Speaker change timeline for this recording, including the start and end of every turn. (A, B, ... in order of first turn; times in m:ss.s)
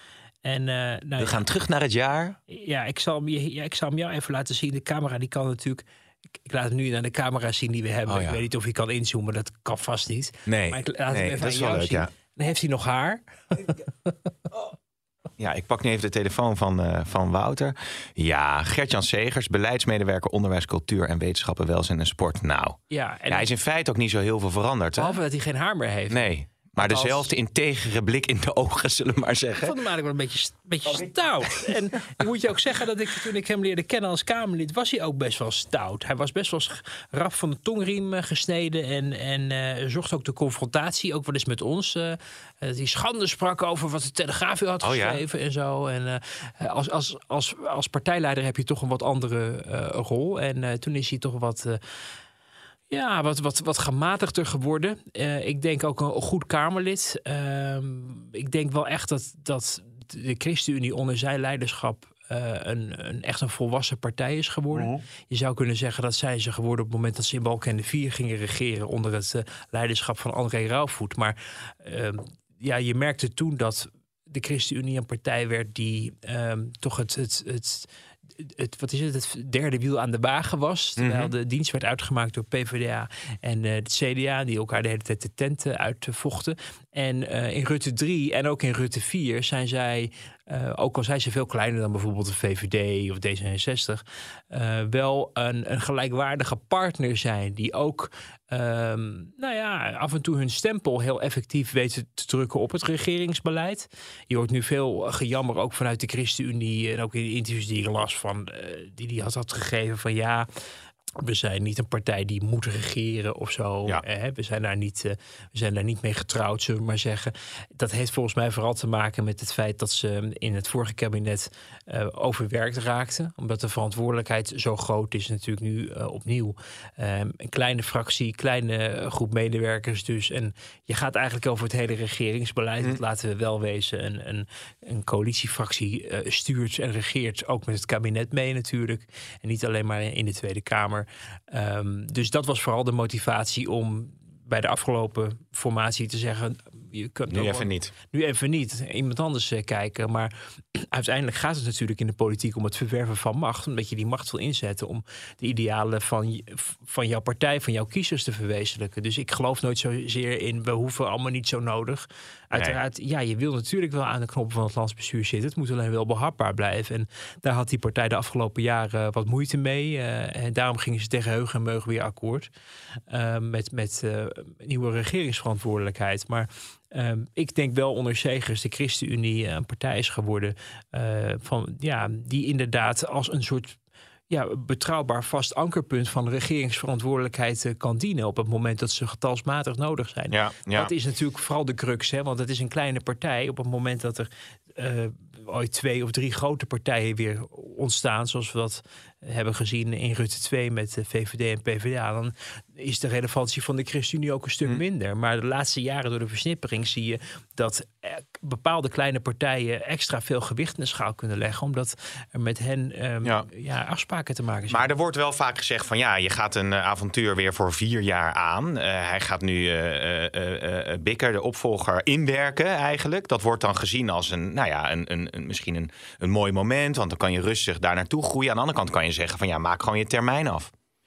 0:00.4-0:01.4 A
0:01.2-0:02.4 B
0:02.5-0:05.8 A
0:06.4-0:14.1 A
0:08.1-0:08.4 B
0:10.5-0:12.1 B
0:15.4-0:25.2 B
0:22.9-0:23.5 A
0:25.0-0:27.3 A
0:26.1-0:29.7 B
0:29.6-0:51.8 A
0:44.8-0:45.2 B
0:52.9-1:50.5 A
1:04.8-1:05.0 B
1:21.0-1:21.3 B
1:51.2-2:52.5 A
2:27.3-2:27.9 B
2:42.5-2:42.8 B
2:53.1-3:03.8 A
3:04.3-3:34.8 A
3:10.3-3:10.9 B
3:34.7-3:50.7 B